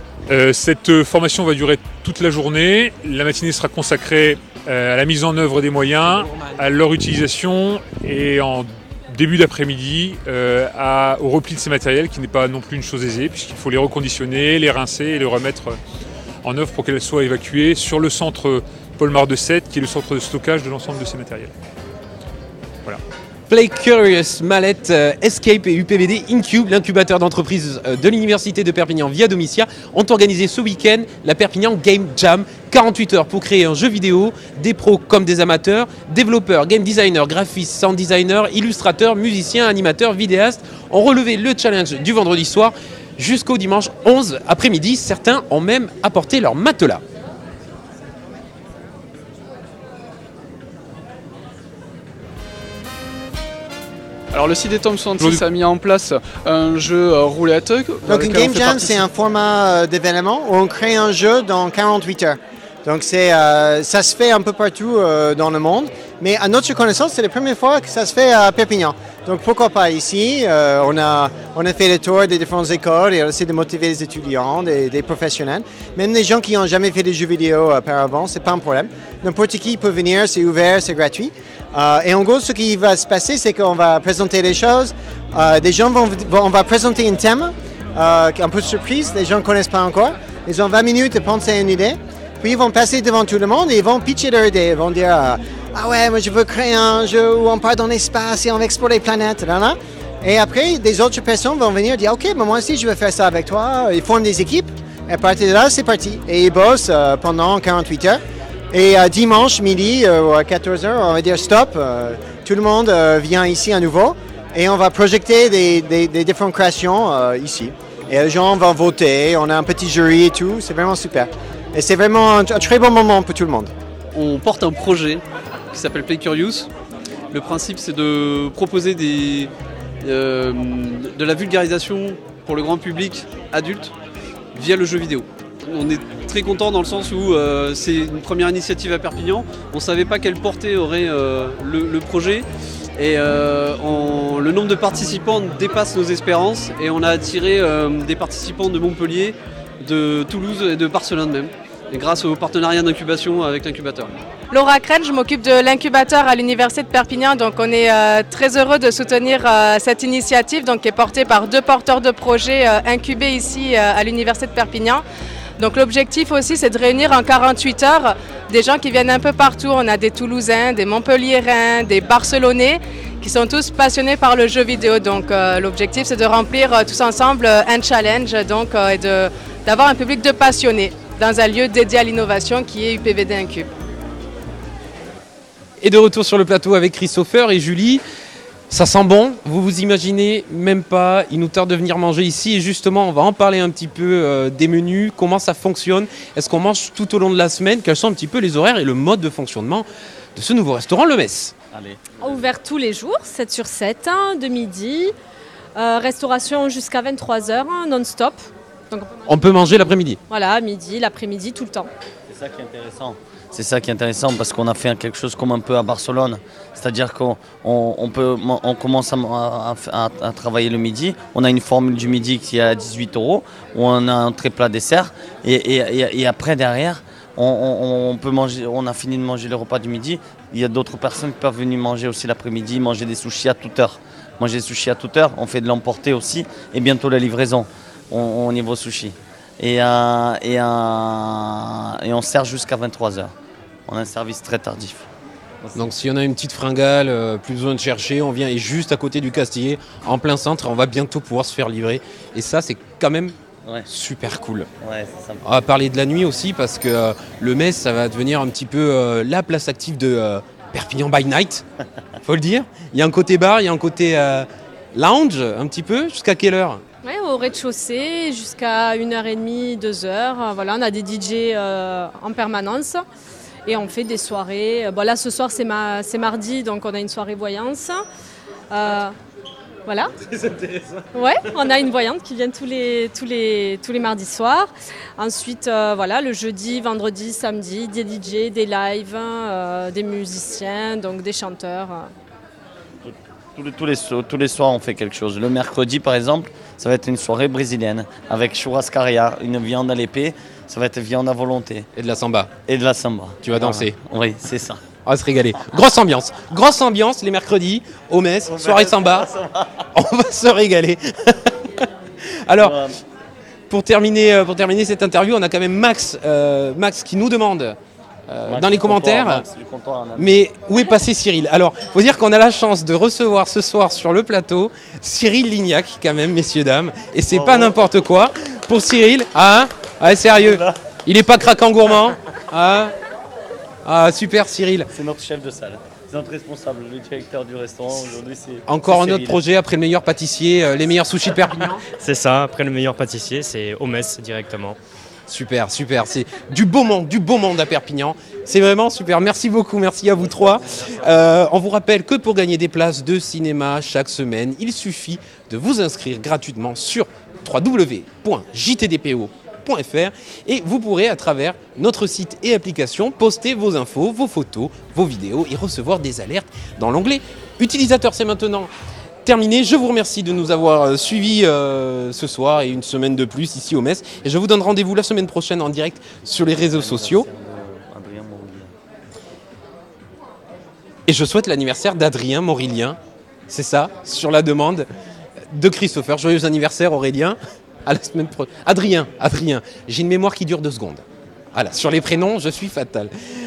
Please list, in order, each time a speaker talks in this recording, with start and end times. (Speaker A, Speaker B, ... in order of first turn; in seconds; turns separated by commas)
Speaker A: 0.3-15.8, Speaker B: 6.0-6.6, Speaker A: 16.4-21.5, Speaker B: 23.5-47.0, Speaker C: 54.3-59.1, Speaker D: 58.0-108.2, Speaker D: 108.7-123.7, Speaker E: 124.1-126.7, Speaker E: 127.3-129.5, Speaker E: 130.0-133.9, Speaker E: 134.5-154.1, Speaker F: 154.5-165.0, Speaker F: 165.6-183.7, Speaker B: 185.8-188.0, Speaker B: 188.7-201.5, Speaker G: 201.7-202.4, Speaker H: 202.2-205.1, Speaker H: 205.8-209.3, Speaker B: 209.3-210.2, Speaker H: 210.3-211.9, Speaker G: 212.3-243.3, Speaker G: 243.9-245.1, Speaker G: 245.6-245.9, Speaker B: 245.8-253.3, Speaker B: 253.9-254.7, Speaker G: 254.8-255.6, Speaker B: 255.4-261.6, Speaker B: 262.2-266.8, Speaker H: 267.0-273.0, Speaker H: 273.6-278.0, Speaker H: 278.7-279.1, Speaker H: 279.9-280.1, Speaker H: 281.1-292.1, Speaker G: 293.0-301.9, Speaker B: 301.9-302.5, Speaker G: 302.7-304.8, Speaker B: 303.4-303.9, Speaker B: 305.0-309.3, Speaker G: 308.4-309.8, Speaker B: 309.9-311.9, Speaker B: 312.5-312.8, Speaker G: 312.6-312.9, Speaker B: 313.7-317.8, Speaker B: 318.3-319.4, Speaker G: 318.5-320.4, Speaker B: 320.1-332.9, Speaker G: 327.3-327.8, Speaker G: 330.4-330.7, Speaker B: 333.8-334.9, Speaker G: 334.9-339.4, Speaker B: 338.7-341.8, Speaker I: 341.9-344.8, Speaker B: 345.3-368.7, Speaker B: 369.2-377.3, Speaker G: 376.5-378.7, Speaker B: 381.1-383.0, Speaker B: 383.5-384.9, Speaker B: 385.5-393.1